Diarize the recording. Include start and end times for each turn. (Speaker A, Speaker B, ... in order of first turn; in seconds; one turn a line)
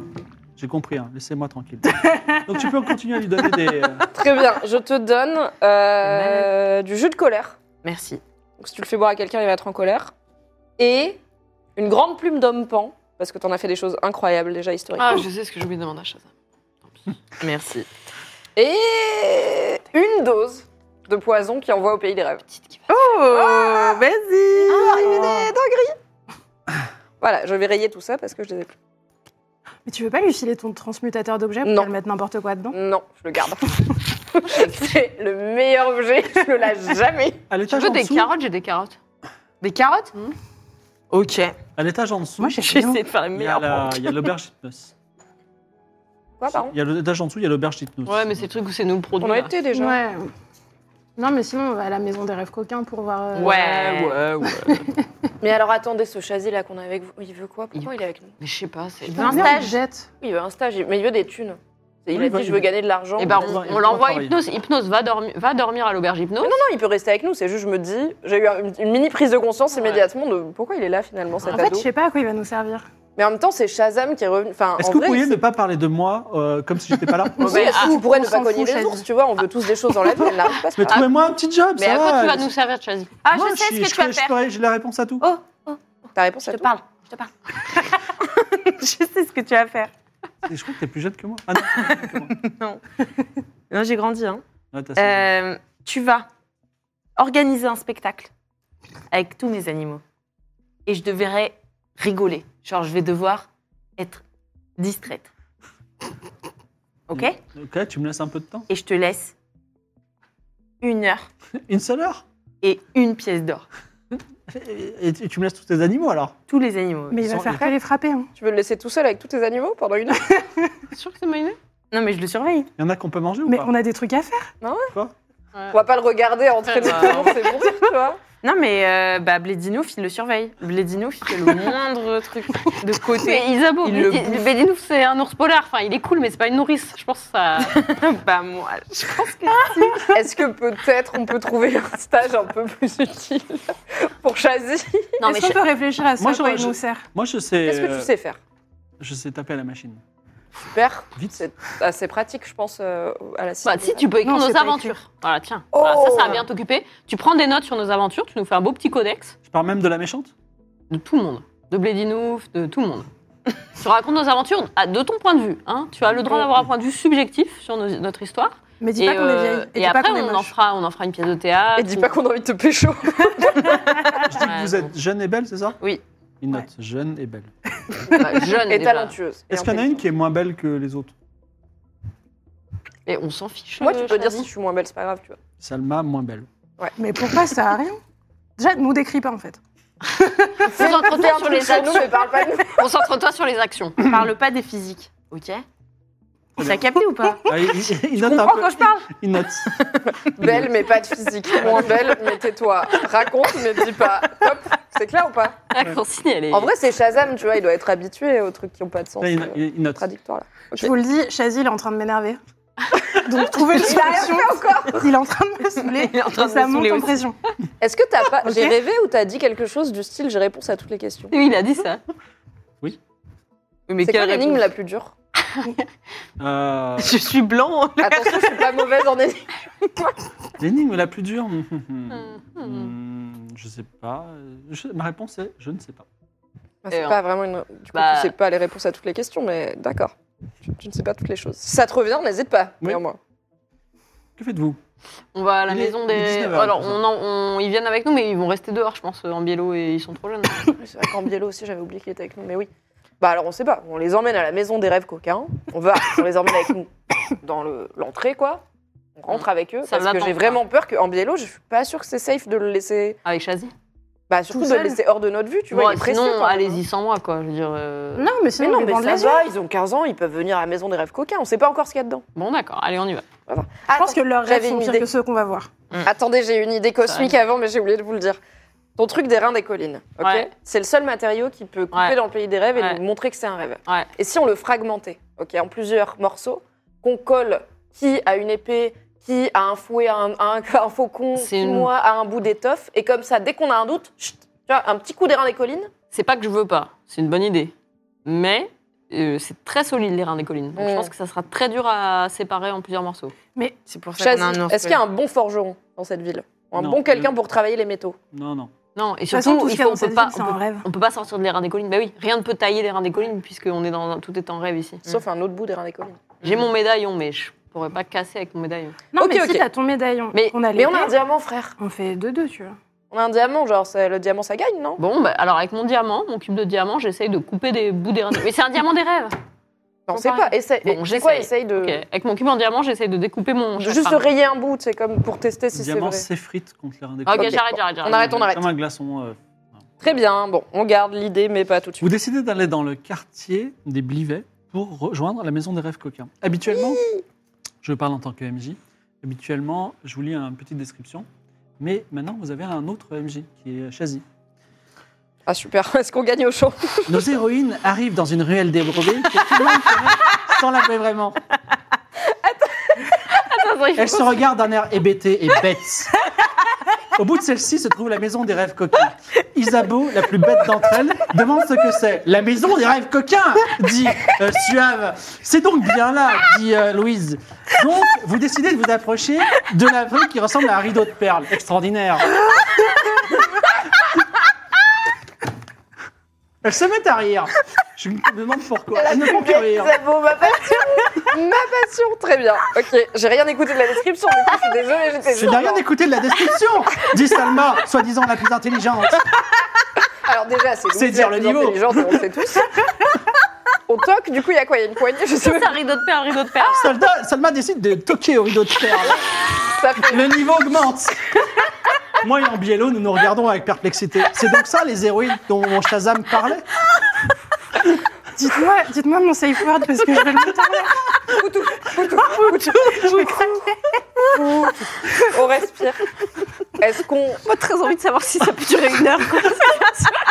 Speaker A: 0.6-4.1
Speaker B: 4.1-7.6
Speaker C: 6.0-6.5
Speaker D: 7.8-8.2
Speaker B: 8.6-10.1
Speaker B: 10.8-11.2
Speaker B: 11.8-15.2
Speaker C: 15.0-16.3
Speaker D: 17.4-17.9
Speaker B: 18.6-22.4
Speaker C: 22.5-22.9
Speaker D: 22.9-25.5
Speaker B: 23.3-24.0
Speaker B: 24.6-25.9
Speaker B: 27.2-28.7
Speaker E: 29.8-32.8
Speaker B: 31.6-31.9
Speaker B: 32.7-37.4
Speaker A: 37.5-38.3
Speaker C: 37.7-39.0
Speaker D: 39.6-40.1
Speaker D: 41.1-41.6
Speaker A: 41.8-42.6
Speaker E: 42.4-43.0
Speaker D: 42.6-44.1
Speaker A: 43.3-44.9
Speaker B: 46.4-46.7
Speaker A: 46.5-48.3
Speaker C: 48.0-49.5
Speaker B: 49.2-50.0
Speaker E: 49.7-50.3
Speaker E: 51.2-53.6
Speaker C: 53.3-54.9
Speaker D: 53.5-54.1
Speaker E: 54.5-55.0
Speaker B: 55.4-58.3
Speaker C: 58.4-59.6
Speaker D: 59.1-59.8
Speaker E: 59.1-60.1
Speaker B: 60.2-64.0
Speaker A: 62.1-62.7
Speaker C: 63.2-66.6
Speaker A: 63.2-64.4
Speaker B: 66.4-71.9
Speaker C: 69.8-70.0
Speaker E: 71.5-72.9
Speaker B: 73.2-75.4
Speaker A: 74.8-77.5
Speaker E: 77.4-79.0
Speaker B: 77.4-81.1
Speaker C: 77.4-78.0
Speaker A: 80.2-82.5
Speaker C: 81.8-83.2
Speaker D: 83.2-84.3
Speaker A: 83.3-85.2
Speaker D: 85.2-85.8
Speaker B: 86.1-86.7
Speaker D: 86.4-89.9
Speaker A: 90.5-92.3
Speaker D: 91.7-92.8
Speaker D: 93.7-94.4
Speaker A: 94.7-95.3
Speaker D: 95.0-96.3
Speaker D: 97.2-98.3
Speaker D: 99.1-100.0
Speaker D: 100.8-104.2
Speaker D: 104.8-105.3
Speaker D: 107.1-107.4
Speaker A: 107.1-108.7
Speaker D: 108.7-109.3
Speaker D: 110.8-111.3
Speaker A: 111.6-112.2
Speaker D: 112.6-113.7
Speaker A: 114.5-116.3
Speaker D: 116.5-117.3
Speaker E: 117.1-118.3
Speaker A: 117.3-117.6
Speaker B: 118.3-120.3
Speaker C: 120.9-121.6
Speaker D: 121.9-122.7
Speaker A: 122.8-123.7
Speaker E: 123.5-124.5
Speaker B: 124.6-124.9
Speaker B: 125.7-128.2
Speaker C: 126.6-127.6
Speaker D: 128.4-134.5
Speaker C: 133.2-137.8
Speaker D: 137.6-140.0
Speaker B: 140.1-145.2
Speaker C: 145.2-145.6
Speaker E: 145.2-147.1
Speaker A: 146.2-148.1
Speaker B: 147.6-148.4
Speaker A: 149.0-150.0
Speaker B: 150.7-154.1
Speaker C: 153.6-159.3
Speaker E: 154.2-155.0
Speaker B: 155.7-156.4
Speaker A: 159.5-160.3
Speaker C: 160.9-163.1
Speaker C: 163.8-172.2
Speaker E: 168.8-170.5
Speaker B: 171.8-174.2
Speaker A: 174.2-175.8
Speaker C: 174.4-174.9
Speaker A: 176.4-177.5
Speaker E: 177.9-178.2
Speaker C: 178.1-179.1
Speaker B: 178.4-180.0
Speaker A: 179.5-181.1
Speaker C: 183.1-184.5
Speaker B: 183.8-185.4
Speaker A: 185.6-186.5
Speaker E: 187.0-188.0
Speaker E: 188.6-189.6
Speaker E: 190.1-191.1
Speaker C: 190.6-194.0
Speaker B: 190.6-192.8
Speaker D: 194.0-195.6
Speaker A: 196.6-196.9
Speaker D: 196.6-197.4
Speaker A: 197.4-199.8
Speaker B: 198.2-198.6
Speaker D: 198.4-199.0
Speaker B: 200.1-205.6
Speaker A: 200.4-200.7
Speaker A: 201.6-201.9
Speaker C: 205.7-206.7
Speaker B: 206.5-210.9
Speaker A: 209.2-210.1
Speaker E: 210.7-212.4
Speaker E: 213.1-217.4
Speaker B: 213.7-215.1
Speaker D: 215.9-217.2
Speaker B: 217.8-221.3
Speaker E: 218.4-218.7
Speaker C: 221.3-222.0
Speaker D: 223.9-224.6
Speaker B: 224.0-225.1
Speaker A: 226.4-227.2
Speaker D: 227.0-228.8
Speaker B: 228.0-229.5
Speaker A: 230.6-236.1
Speaker C: 232.3-232.9
Speaker B: 236.8-240.1
Speaker C: 236.9-237.2
Speaker C: 237.9-238.3
Speaker B: 240.6-243.2
Speaker A: 244.4-244.8
Speaker C: 245.3-250.7
Speaker A: 245.7-247.0
Speaker B: 250.7-252.7
Speaker B: 253.2-258.6
Speaker B: 259.2-263.2
Speaker C: 259.3-260.6
Speaker C: 263.2-263.7
Speaker B: 264.3-266.8
Speaker E: 264.5-265.0
Speaker C: 265.7-268.3
Speaker E: 268.1-269.4
Speaker B: 268.6-272.2
Speaker C: 272.3-273.2
Speaker B: 273.5-275.1
Speaker E: 273.9-275.7
Speaker B: 276.0-278.4
Speaker C: 277.0-277.3
Speaker B: 279.0-295.9
Speaker C: 280.2-280.5
Speaker C: 282.7-283.0
Speaker C: 291.4-291.9
Speaker C: 296.1-297.7
Speaker C: 298.2-303.3
Speaker B: 300.8-301.1
Speaker D: 303.9-305.0
Speaker B: 304.2-308.2
Speaker A: 306.8-307.3
Speaker A: 308.3-308.7
Speaker C: 308.9-315.0
Speaker E: 309.3-310.9
Speaker B: 315.1-316.4
Speaker C: 316.4-319.0
Speaker E: 319.1-321.1
Speaker B: 319.2-319.6
Speaker B: 320.7-321.7
Speaker E: 321.8-322.8
Speaker B: 323.1-325.0
Speaker C: 325.0-329.4
Speaker B: 330.1-332.0
Speaker C: 330.1-334.3
Speaker B: 333.8-336.2
Speaker A: 335.7-337.6
Speaker C: 337.2-338.5
Speaker B: 337.3-338.6
Speaker A: 338.1-339.4
Speaker B: 340.0-342.1
Speaker A: 342.0-347.0
Speaker A: 347.8-351.3
Speaker A: 351.8-354.2
Speaker B: 355.4-357.2
Speaker A: 357.1-361.4
Speaker B: 362.3-363.1
Speaker C: 363.5-364.3
Speaker A: 363.9-366.1
Speaker A: 367.1-382.3
Speaker A: 386.6-389.9
Speaker B: 388.9-395.8
Speaker A: 395.3-399.2
Speaker B: 400.2-402.7
Speaker A: 400.9-402.3
Speaker B: 403.9-405.8
Speaker C: 405.4-406.9
Speaker A: 406.6-409.2
Speaker B: 409.6-410.2
Speaker A: 410.0-411.4
Speaker A: 412.2-416.7
Speaker E: 418.3-421.1
Speaker B: 421.3-423.5
Speaker E: 422.9-423.6
Speaker B: 424.3-426.0
Speaker B: 426.8-427.4
Speaker C: 427.4-430.2